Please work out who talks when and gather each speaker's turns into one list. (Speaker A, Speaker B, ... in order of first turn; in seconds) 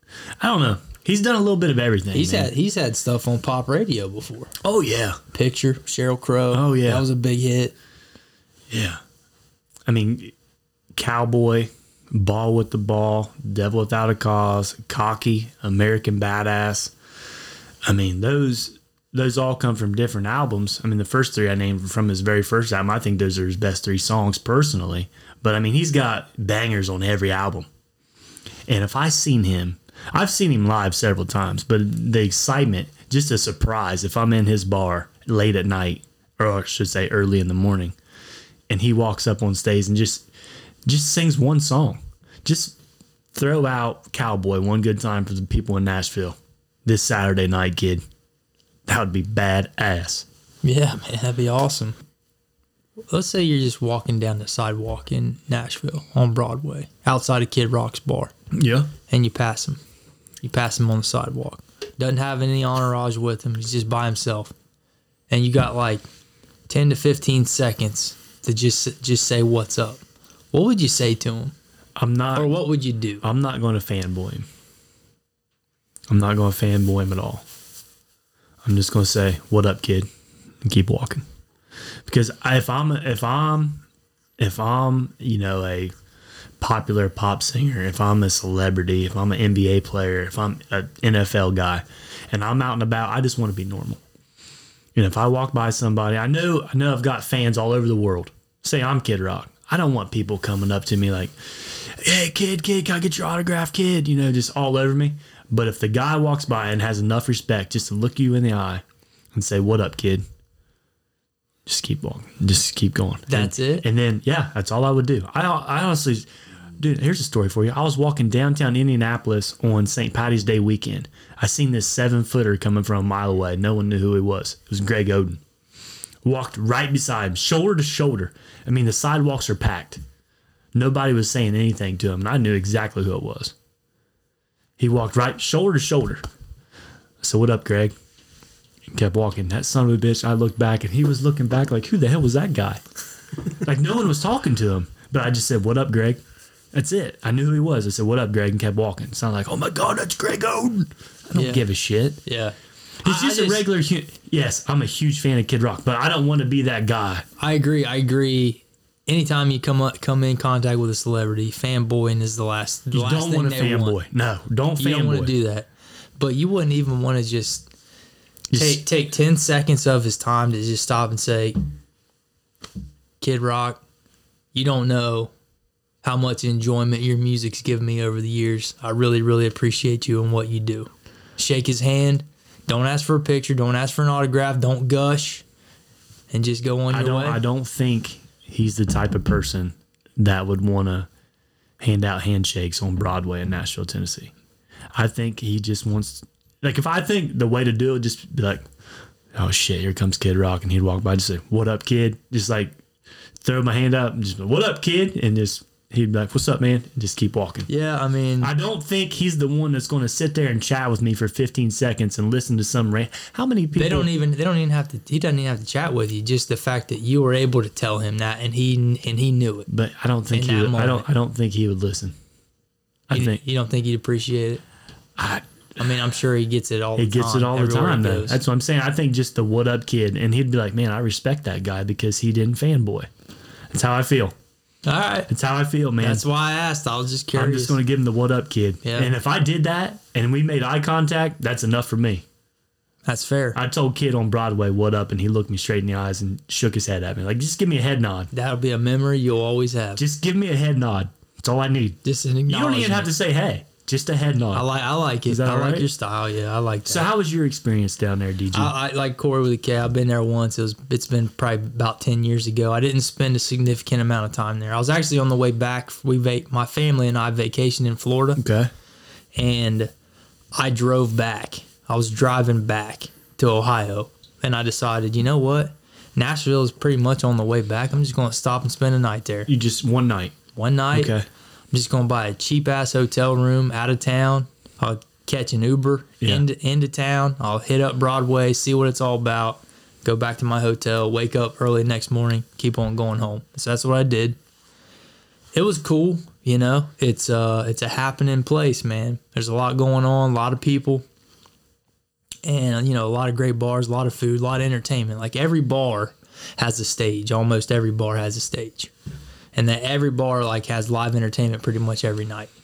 Speaker A: 0.4-2.5, 4.6-5.2, 6.5-7.0, 8.7-9.0, 9.9-10.3, 10.9-16.9, 17.9-27.7, 28.7-38.0, 38.7-40.3, 40.9-42.8, 43.3-48.0, 48.9-50.2, 58.5-58.9, 72.0-72.5, 73.2-74.5, 76.1-77.4, 78.6-80.1, 80.6-81.2, 82.0-83.8, 84.4-85.9, 86.6-94.0, 94.9-108.8, 109.3-110.2, 111.7-125.4, 126.2-130.0, 130.7-133.5, 134.8-136.2, 137.2-137.9, 138.9-142.8, 143.5-146.2, 146.7-152.2, 153.0-157.2, 162.9-165.3, 168.5-168.8, 186.9-191.1, 191.8-194.3, 194.9-198.6, 199.3-202.8, 203.4-207.7, 208.4-214.1, 219.7-222.1, 223.1-223.4, 225.2-225.4, 226.9-233.1, 233.7-234.3, 235.3-236.2, 237.3-242.2, 243.5-248.3, 250.0-254.7, 255.2-255.9, 256.9-258.7, 268.4-268.7, 279.5-280.3, 280.9-281.2
Speaker B: 2.1-4.5, 5.3-7.7, 50.6-52.0, 53.1-58.3, 59.1-59.8, 60.4-64.5, 65.3-66.0, 66.7-71.5, 72.3-73.2, 113.3-113.8, 151.3-151.6, 152.2-153.7, 157.4-163.9, 164.8-167.7, 168.5-171.6, 173.2-173.8, 174.5-175.3, 176.0-185.4, 186.3-187.4, 207.7-208.5, 213.7-219.7, 220.3-221.1, 223.1-224.6, 225.8-228.4, 234.8-235.3, 236.0-237.8, 238.8-239.1, 243.1-243.6, 248.3-250.0, 252.0-253.1, 254.5-257.1, 258.5-268.4, 269.3-269.9, 270.5-279.5, 280.6-281.1, 281.7-294.4, 295.5-301.0, 302.4-308.9, 309.5-312.5